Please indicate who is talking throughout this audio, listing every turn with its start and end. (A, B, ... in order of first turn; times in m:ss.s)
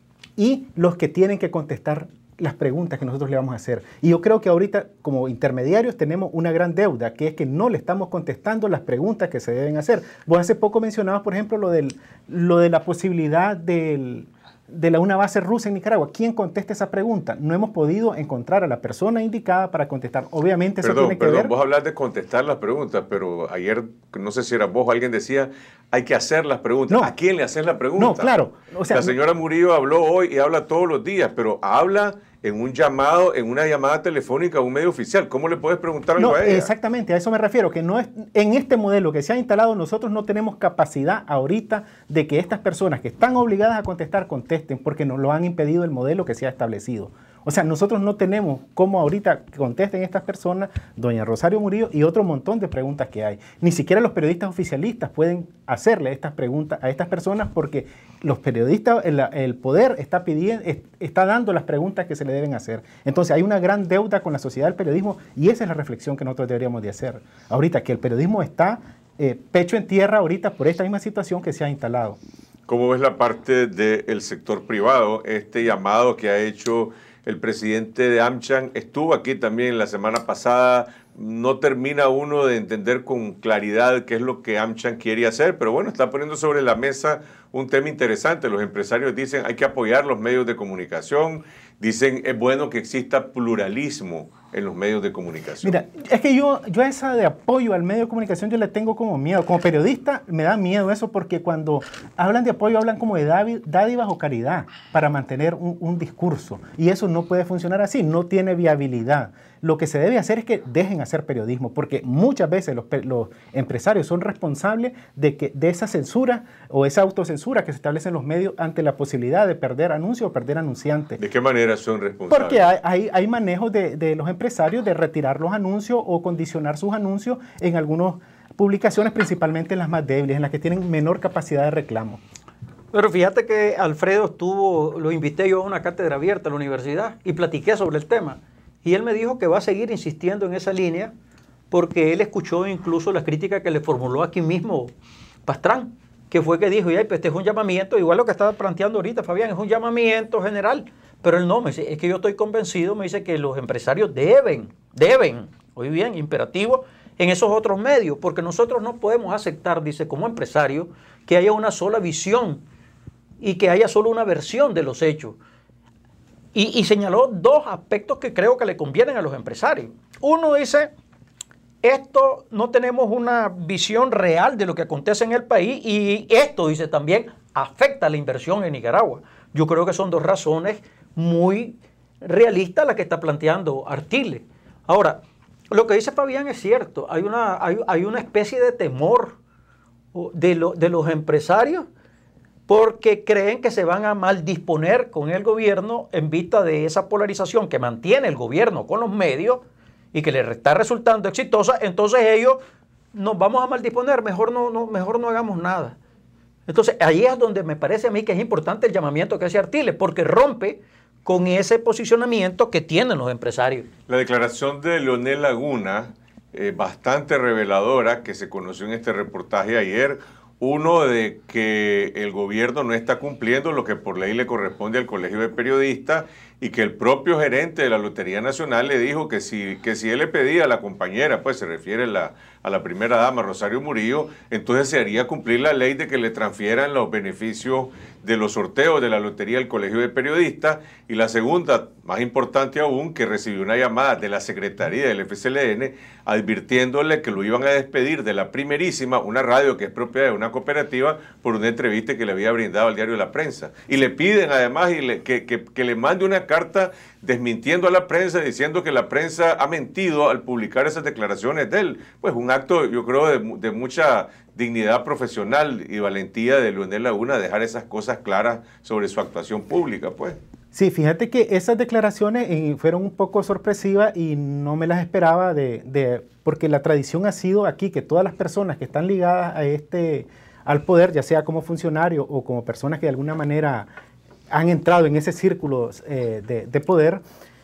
0:00.4-0:21.5 A
0:20.8-0:28.3 B
0:28.0-0:29.1 A
0:28.9-0:36.7 B
0:36.2-1:12.2 A
1:12.7-1:35.7 B
1:35.6-2:01.2 A
2:01.2-2:02.6 B
2:02.3-2:12.2 A
2:12.9-2:21.1 C
2:21.7-2:24.9 C
2:25.5-2:42.6 C
2:43.4-2:45.4 C
2:46.5-2:50.9 C
2:51.8-3:09.4 C
3:10.1-3:11.9 C
3:12.7-3:22.6 C
3:23.1-3:26.0 C
3:26.7-3:33.9 C
3:34.1-4:30.4 B
4:30.7-4:43.9 A
4:44.5-4:47.2 A